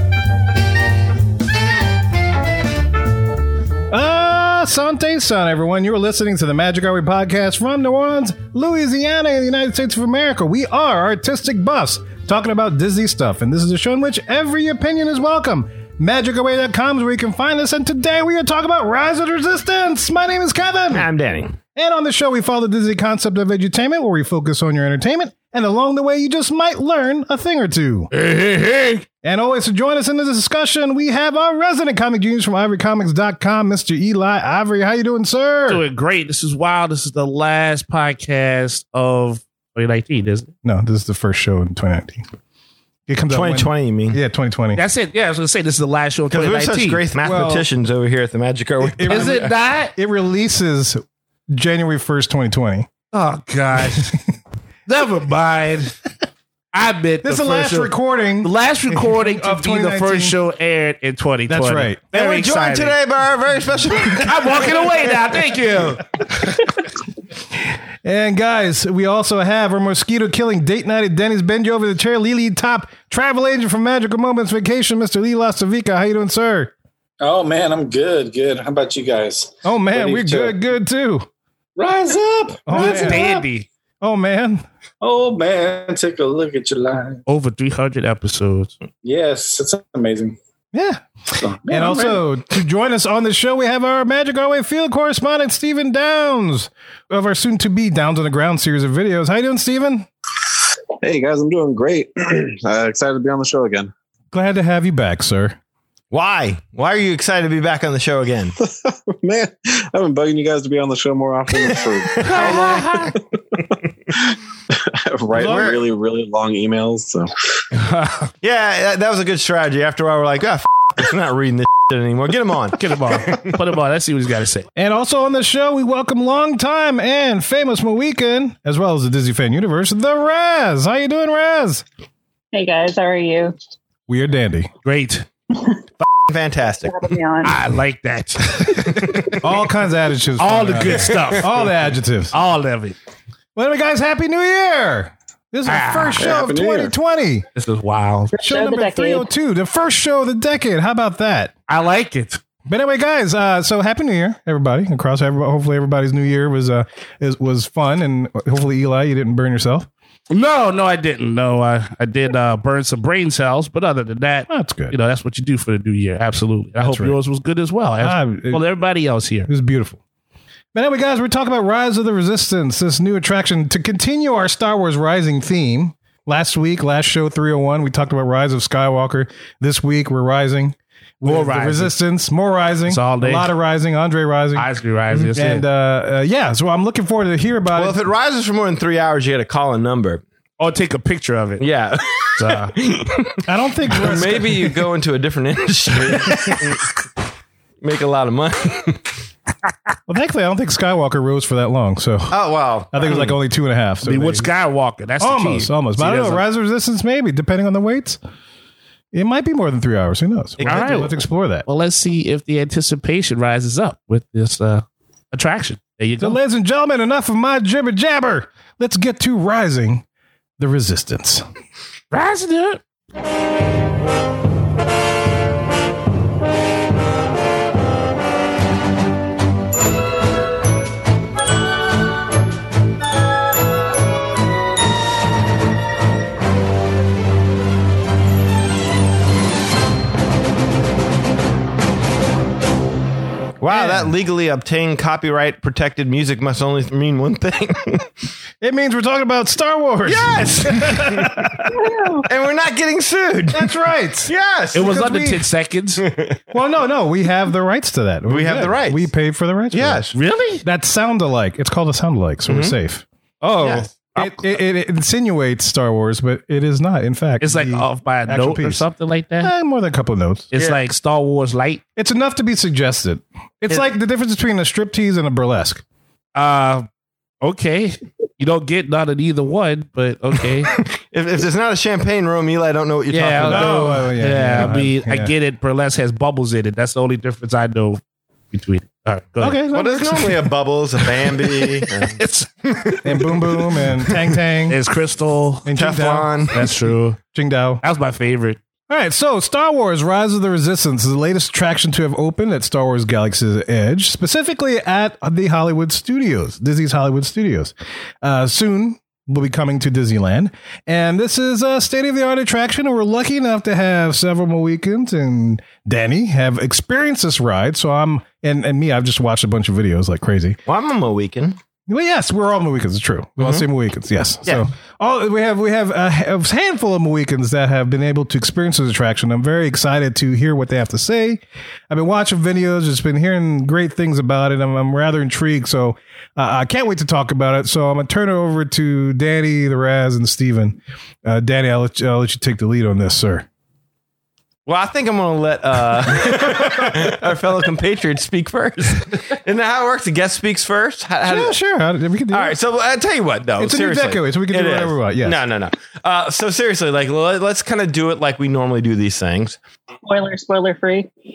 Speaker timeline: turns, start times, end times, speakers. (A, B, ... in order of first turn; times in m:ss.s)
0:03.9-0:21.1 A
0:20.9-0:21.6 B
0:21.7-0:28.1 A
0:28.1-0:29.0 C
0:29.2-0:35.8 A
0:35.7-0:40.5 C
0:40.6-0:42.2 A
0:43.1-0:44.8 A
0:43.3-0:44.2 B
0:44.7-0:47.0 C
0:46.3-0:49.4 B
0:47.2-0:47.7 A
0:48.8-0:52.9 A
0:49.1-0:49.9 C
0:53.1-0:54.1 C
0:53.8-0:54.2 A
0:54.9-0:55.9 C
0:56.7-1:03.0 C
0:57.2-1:00.4 A
1:01.5-1:02.0 A
1:02.1-1:05.3 B
1:04.2-1:06.5 C
1:07.6-1:16.7 A
1:17.2-1:20.6 D
1:19.6-1:21.3 A
1:21.8-1:23.3 D
1:22.6-1:23.4 A
1:22.7-1:23.6 C
1:24.0-1:24.6 A
1:25.0-1:27.2 D
1:27.3-1:28.7 C
1:29.0-1:30.4 D
1:30.7-1:31.0 A
1:31.4-1:32.2 D
1:31.6-1:40.1 A
1:41.0-1:43.9 E
1:44.3-1:45.6 A
1:46.1-1:48.5 B
1:48.6-1:53.2 E
1:52.2-1:52.7 B
1:52.2-1:53.2 C
1:54.3-1:57.3 E
1:55.3-1:55.7 A
1:55.3-1:55.8 B
1:57.8-1:58.3 C
1:58.4-2:03.5 B
2:02.8-2:04.7 C
2:04.8-2:11.8 A
2:12.5-2:13.5 F
2:14.1-2:14.7 A
2:14.8-2:15.2 C
2:16.0-2:17.0 B
2:16.8-2:17.6 F
2:17.4-2:19.4 C
2:18.9-2:19.3 B
2:19.4-2:22.3 A
2:20.4-2:21.6 C
2:20.9-2:21.2 B
2:22.3-2:23.0 C
2:23.6-2:27.4 A
2:25.6-2:26.3 C
2:26.2-2:26.9 E
2:27.6-2:28.3 C
2:28.3-2:29.3 F
2:28.4-2:31.5 A
2:31.7-2:32.4 C
2:32.7-2:39.9 A
2:40.3-2:49.5 C
2:44.5-2:44.9 A
2:46.8-2:47.2 A
2:48.0-2:48.6 A
2:49.5-2:50.0 A
2:50.7-3:08.0 A
3:01.2-3:01.9 C
3:02.9-3:03.5 C
3:04.6-3:05.6 C
3:07.7-3:10.2 B
3:10.6-3:11.6 C
3:11.6-3:16.9 B
3:12.4-3:12.7 C
3:13.4-3:14.8 A
3:17.8-3:19.0 B
3:20.1-3:22.4 A
3:22.3-3:23.4 B
3:22.9-3:24.5 A
3:24.0-3:26.4 C
3:25.2-3:28.2 A
3:29.1-3:31.6 A
3:30.6-3:31.1 B
3:30.6-3:31.1 C
3:31.6-3:36.4 C
3:36.2-3:40.0 A
3:40.6-3:41.4 A
3:42.1-3:42.8 C
4:03.6-4:08.0 B
4:03.7-4:04.1 A
4:08.6-4:11.6 A
4:10.0-4:11.5 B
4:11.7-4:12.3 F
4:12.2-4:15.1 B
4:13.5-4:15.4 A
4:14.7-4:16.0 C
4:16.0-4:16.4 B
4:16.5-4:20.0 A
4:18.3-4:19.1 B
4:19.7-4:20.1 B
4:20.1-4:20.6 C
4:20.6-4:28.8 A
4:22.5-4:22.7 B
4:23.6-4:24.0 B
4:24.2-4:24.4 C
4:27.4-4:29.5 C
4:29.4-4:30.5 A
4:30.5-4:31.8 C
4:32.0-4:35.8 A
4:36.3-4:36.9 C
4:37.4-4:40.7 C
4:40.8-4:43.9 B
4:43.1-4:48.0 C
4:43.4-4:45.3 A
4:48.5-4:49.6 C
4:49.4-4:50.4 A
4:49.7-4:54.3 B
4:51.6-4:52.5 C
4:53.0-4:54.8 A
4:54.7-4:55.7 C
4:55.6-4:56.7 A
4:55.7-4:56.6 B
4:56.5-4:57.2 C
4:57.3-4:57.8 A
4:57.8-4:58.6 C
4:58.9-5:20.6 A
5:20.6-5:21.6 B
5:21.9-5:43.4 A
5:23.4-5:23.6 B
5:44.6-5:51.6 B
5:46.2-5:47.0 A
5:51.2-5:52.6 A
5:52.3-5:59.6 B
5:53.6-5:55.4 A
6:00.0-6:01.1 F